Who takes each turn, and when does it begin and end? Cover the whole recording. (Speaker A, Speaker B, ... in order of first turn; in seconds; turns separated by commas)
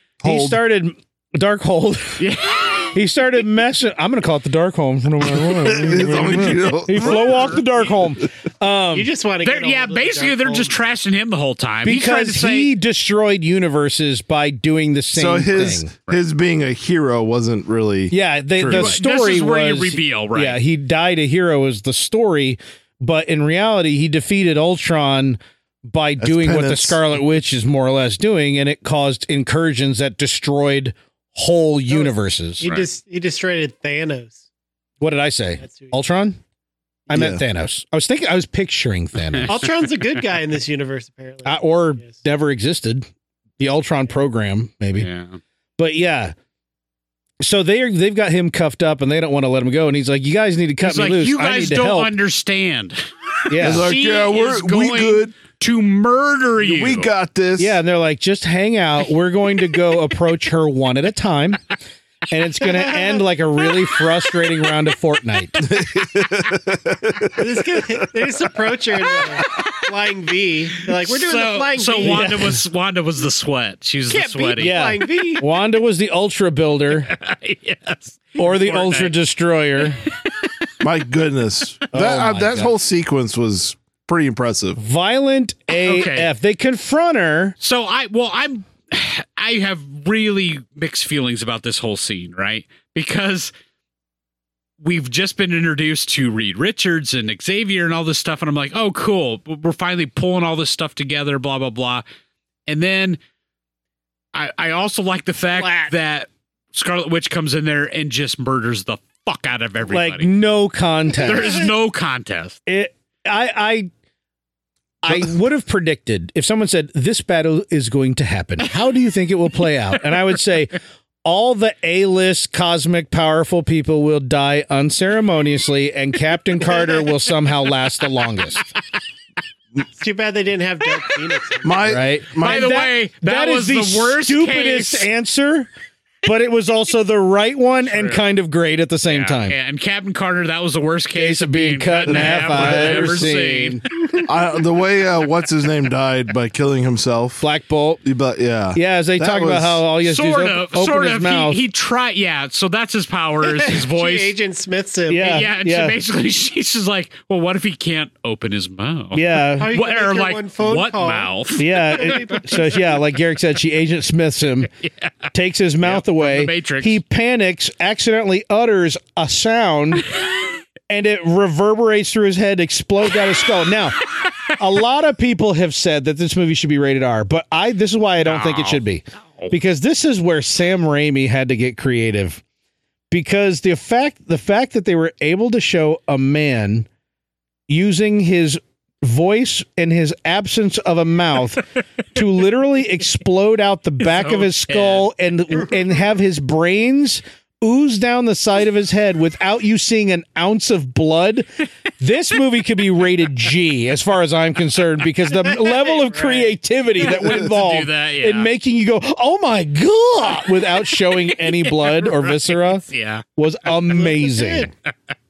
Speaker A: 0.2-0.6, Speaker B: 0.2-2.3, Speaker C: 2.2-3.0, Speaker B: 2.9-9.1, Speaker A: 5.6-7.6, Speaker C: 7.0-7.6, Speaker D: 8.9-10.8, Speaker C: 9.4-12.7, Speaker B: 11.8-15.9, Speaker A: 15.1-18.9, Speaker B: 18.1-32.7, Speaker C: 18.7-20.6, Speaker A: 26.2-27.0, Speaker D: 31.9-34.4, Speaker B: 35.0-36.4, Speaker D: 35.6-35.9, Speaker B: 37.1-39.5, Speaker A: 37.1-37.4, Speaker D: 39.5-42.1, Speaker B: 41.5-43.1, Speaker B: 43.6-45.1, Speaker C: 45.0-45.4, Speaker B: 45.8-46.3, Speaker B: 47.4-52.1, Speaker C: 50.8-57.1, Speaker B: 53.5-53.9, Speaker A: 53.6-55.4, Speaker A: 56.6-57.8, Speaker B: 57.6-61.7, Speaker B: 62.3-65.7, Speaker A: 65.6-68.0, Speaker D: 67.4-72.4, Speaker C: 69.4-69.7, Speaker C: 70.9-74.9, Speaker B: 72.0-72.6, Speaker D: 74.1-75.5, Speaker B: 74.6-77.1, Speaker C: 77.0-79.1, Speaker B: 78.4-80.0, Speaker C: 79.9-80.7, Speaker A: 80.8-84.8, Speaker B: 81.9-82.8, Speaker B: 84.8-87.6, Speaker C: 85.7-86.3, Speaker C: 87.6-93.5, Speaker C: 94.8-102.0, Speaker C: 102.7-103.2, Speaker C: 104.3-110.3, Speaker B: 109.9-111.7, Speaker C: 111.2-112.6, Speaker B: 112.7-113.9, Speaker B: 115.0-128.7, Speaker D: 130.0-132.0, Speaker A: 131.6-132.8, Speaker B: 131.8-135.7, Speaker C: 132.4-135.1, Speaker B: 136.2-139.6, Speaker C: 137.8-138.2, Speaker C: 139.1-143.8, Speaker B: 141.2-143.8, Speaker A: 142.1-143.2, Speaker A: 144.2-147.5, Speaker B: 147.4-148.0, Speaker A: 148.0-149.8, Speaker B: 148.7-151.6, Speaker C: 150.0-154.3, Speaker D: 153.4-155.4, Speaker B: 155.1-156.0, Speaker C: 155.2-162.4, Speaker B: 159.1-159.7, Speaker D: 159.6-162.8, Speaker B: 161.6-164.7, Speaker C: 164.8-165.1, Speaker B: 165.3-170.1, Speaker C: 165.8-167.0, Speaker B: 170.9-182.4, Speaker C: 178.2-178.8, Speaker B: 183.1-186.9, Speaker B: 187.7-201.5, Speaker C: 194.1-195.1, Speaker B: 202.0-212.8, Speaker D: 205.7-206.5, Speaker C: 207.0-208.5, Speaker C: 211.1-213.2, Speaker B: 213.4-214.7, Speaker D: 214.0-214.7